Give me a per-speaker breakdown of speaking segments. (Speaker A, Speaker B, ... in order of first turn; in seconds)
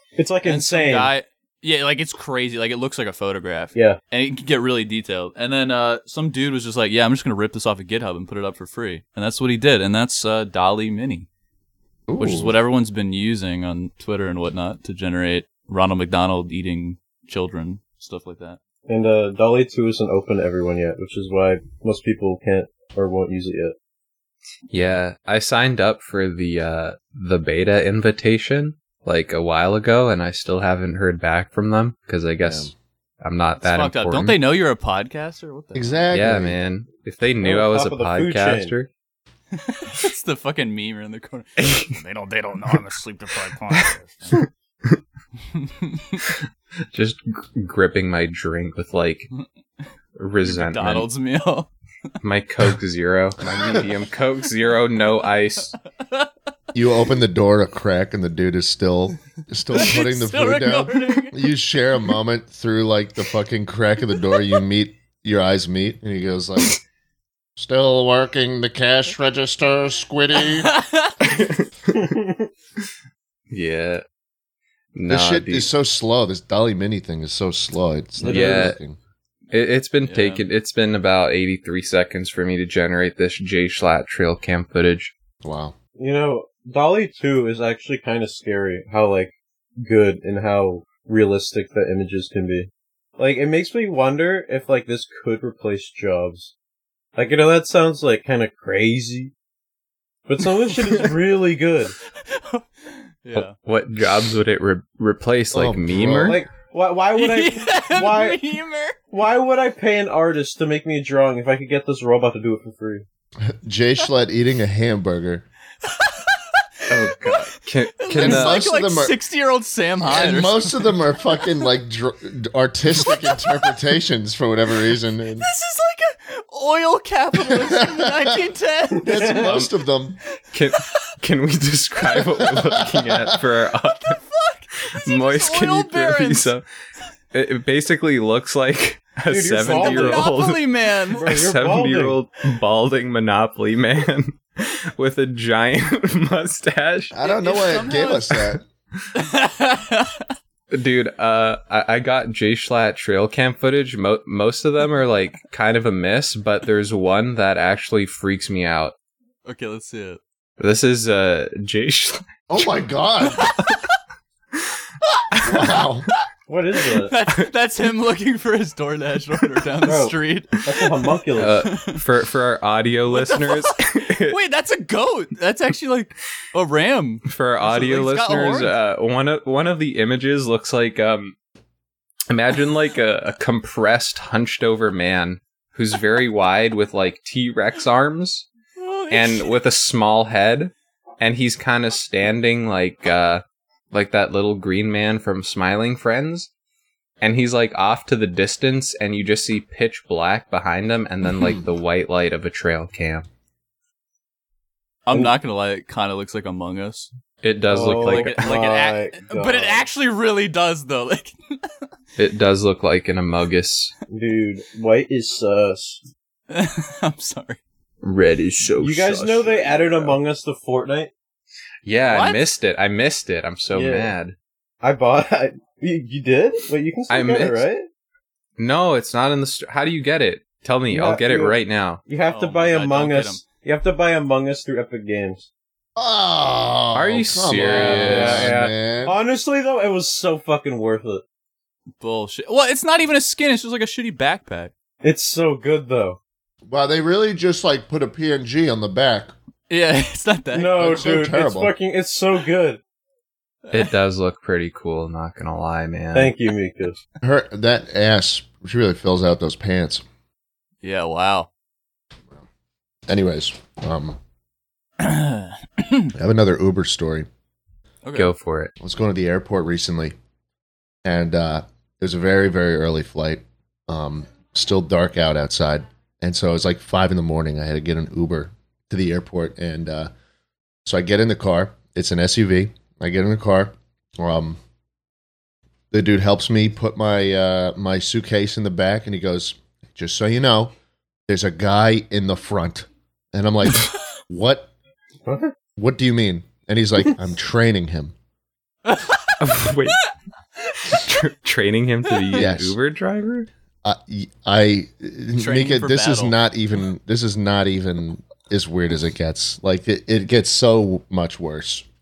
Speaker A: 0.1-1.1, 18.9-23.7, 37.4-38.7, 71.9-72.5, 78.2-78.7, 86.0-96.5, 97.2-99.3, 100.3-101.9, 106.2-108.4, 109.1-113.0, 129.1-129.4, 139.3-140.4, 141.1-142.2, 166.5-167.1, 169.8-171.6, 207.7-209.9, 214.1-216.0, 218.8-221.1, 223.7-224.1, 224.8-227.9, 230.9-235.4, 237.6-241.2, 245.0-246.2, 250.5-252.8, 256.1-257.0, 295.2-295.5
Speaker B: 0.4-11.3, 12.2-18.6, 33.6-36.1, 39.5-42.0, 45.5-46.2, 50.4-51.7, 59.7-61.5, 70.4-71.1, 80.0-80.4, 102.2-103.5, 107.1-109.0, 115.8-121.0, 123.0-123.4, 125.4-129.5, 133.8-136.5, 139.6-141.3, 147.2-148.5, 149.1-150.3, 159.4-160.2, 166.8-170.9, 171.5-172.0, 173.1-178.7, 188.8-189.6, 205.1-207.1, 207.9-211.7, 216.5-217.6, 222.0-222.4, 232.2-233.4, 242.0-244.7, 249.7-251.0, 260.8-261.5, 265.0-266.1, 268.0-268.3, 298.9-299.4, 305.4-306.4
Speaker C: 12.1-12.5, 32.4-32.7, 35.7-36.6, 53.5-53.8, 56.7-66.8, 67.6-70.7, 75.1-79.0, 85.4-85.7, 105.5-106.4, 113.4-115.4, 118.2-119.2, 120.0-125.5, 127.5-128.3, 129.0-130.2, 132.4-133.4, 147.1-148.6, 162.5-163.5, 165.4-166.1, 235.9-239.1, 246.7-249.3, 250.8-251.7, 257.2-260.0, 263.1-264.2, 266.1-267.3, 268.8-270.1, 271.0-280.1, 280.8-284.6, 285.9-290.7, 291.3-294.7, 295.8-298.1, 302.4-302.8, 303.8-311.8
Speaker D: 24.7-34.4, 36.1-38.9, 41.6-42.0, 43.7-44.4, 46.9-49.3, 50.1-51.1, 52.2-55.7, 71.2-71.7, 73.5-74.0, 74.9-75.7, 78.2-78.8, 79.5-85.1, 103.3-106.4, 116.9-118.6, 130.5-134.2, 135.0-136.6, 137.3-140.6, 141.1-147.1, 150.7-158.9, 160.6-162.2, 165.3-165.8, 171.3-174.4, 177.2-181.3, 182.3-188.5, 189.1-196.5, 197.2-203.3, 207.4-208.5, 212.2-213.9, 218.0-220.2, 221.8-224.3, 227.1-227.7, 228.6-232.0, 236.9-238.5, 253.7-256.3, 268.1-268.7, 299.4-300.0, 300.9-303.5
Speaker E: 41.9-44.4